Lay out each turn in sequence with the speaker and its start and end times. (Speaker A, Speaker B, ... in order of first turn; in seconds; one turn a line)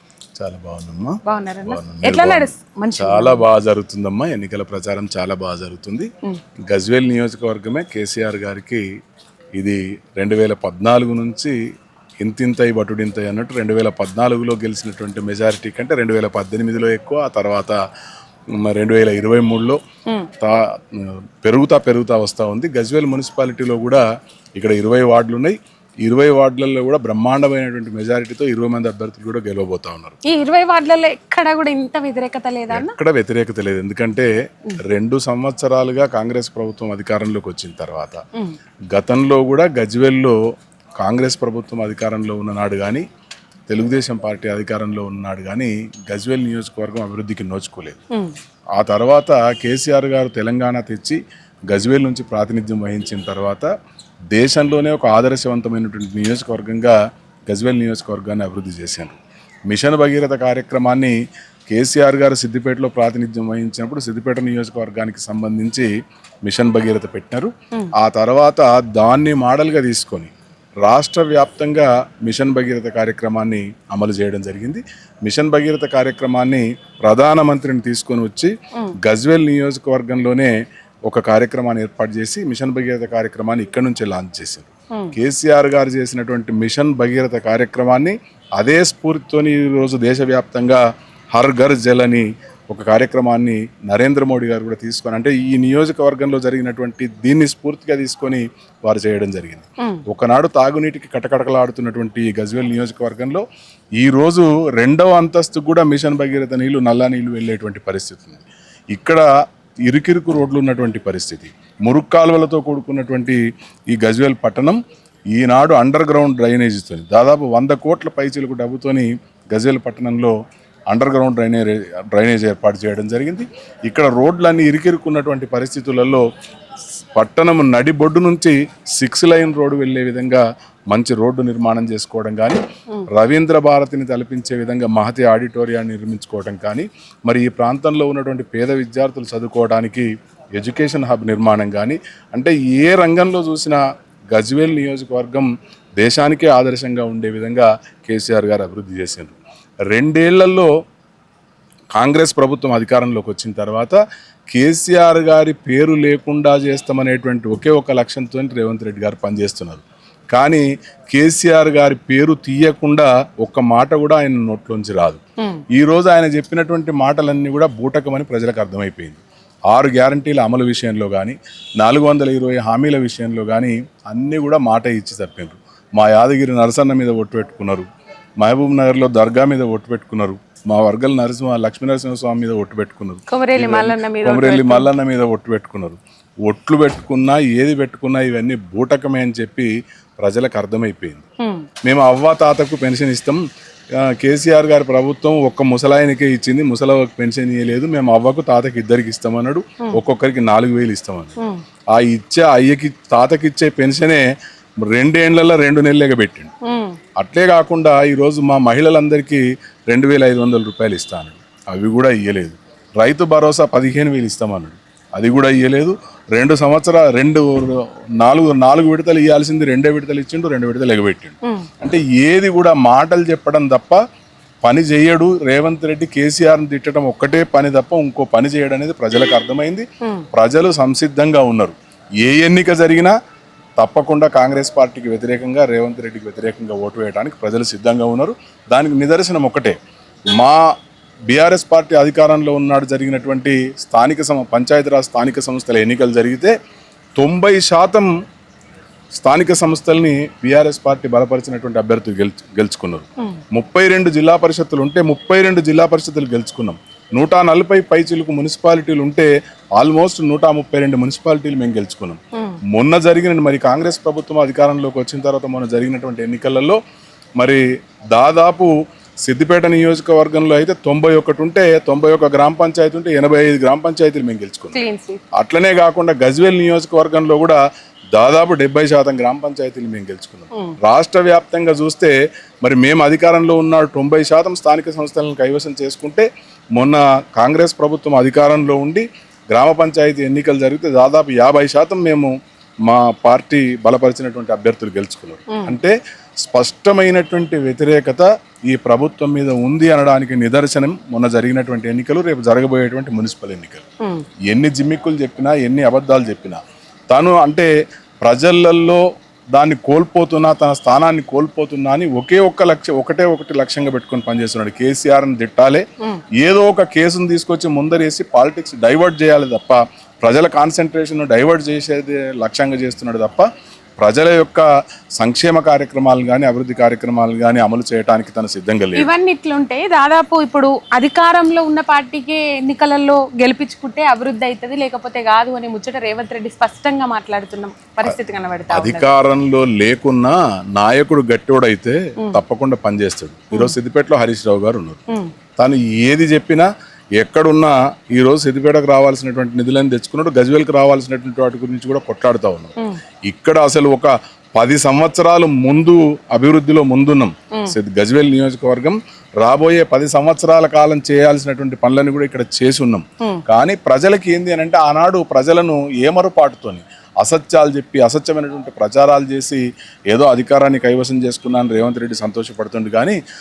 Speaker A: 0.4-6.1
Speaker B: 1.2-3.4
Speaker A: 6.7-8.8
Speaker A: 9.6-11.5
Speaker A: 12.2-17.8
Speaker A: 18.6-19.8
Speaker A: 20.4-24.0
Speaker A: 24.6-30.2
Speaker B: 30.2-32.9
Speaker A: 32.7-34.3
Speaker A: 34.8-38.2
Speaker A: 38.9-40.4
Speaker A: 41.0-43.0
Speaker A: 43.7-48.0
Speaker A: 48.8-53.7
Speaker A: 54.3-57.0
Speaker A: 57.5-59.2
Speaker A: 59.7-61.1
Speaker A: 61.7-65.9
Speaker A: 66.4-70.3
Speaker A: 70.8-78.5
Speaker A: 79.0-80.5
Speaker A: 81.1-103.4
Speaker A: 104.0-109.2
Speaker A: 109.9-113.4
Speaker A: 113.9-114.8
Speaker A: 115.3-120.3
Speaker A: 120.9-126.2
Speaker A: 127.1-143.8
Speaker A: 144.3-149.4
Speaker A: 149.9-150.7
Speaker A: 151.9-154.0
Speaker A: 154.5-165.2
Speaker A: 165.7-177.9
Speaker A: 178.4-191.2
Speaker B: 183.3-184.9
Speaker B: 191.4-191.7
Speaker A: 191.8-193.4
Speaker A: 194.0-201.4
Speaker A: 201.9-204.2
Speaker A: 204.8-206.5
Speaker B: 206.6-207.0
Speaker A: 207.2-224.0
Speaker A: 224.6-233.2
Speaker A: 233.8-239.8
Speaker A: 240.3-240.7
Speaker A: 241.3-246.5
Speaker A: 247.2-248.1
Speaker A: 249.1-266.8
Speaker A: 267.4-268.7
Speaker A: 269.2-274.8
Speaker B: 274.7-275.2
Speaker A: 275.3-277.6
Speaker A: 278.1-292.3
Speaker A: 292.9-303.9
Speaker B: 295.5-295.8
Speaker A: 304.5-307.7
Speaker A: 308.2-309.0
Speaker A: 309.5-315.8
Speaker A: 316.4-324.6
Speaker A: 325.2-329.1
Speaker B: 328.9-339.1
Speaker A: 338.7-345.0
Speaker A: 345.6-373.2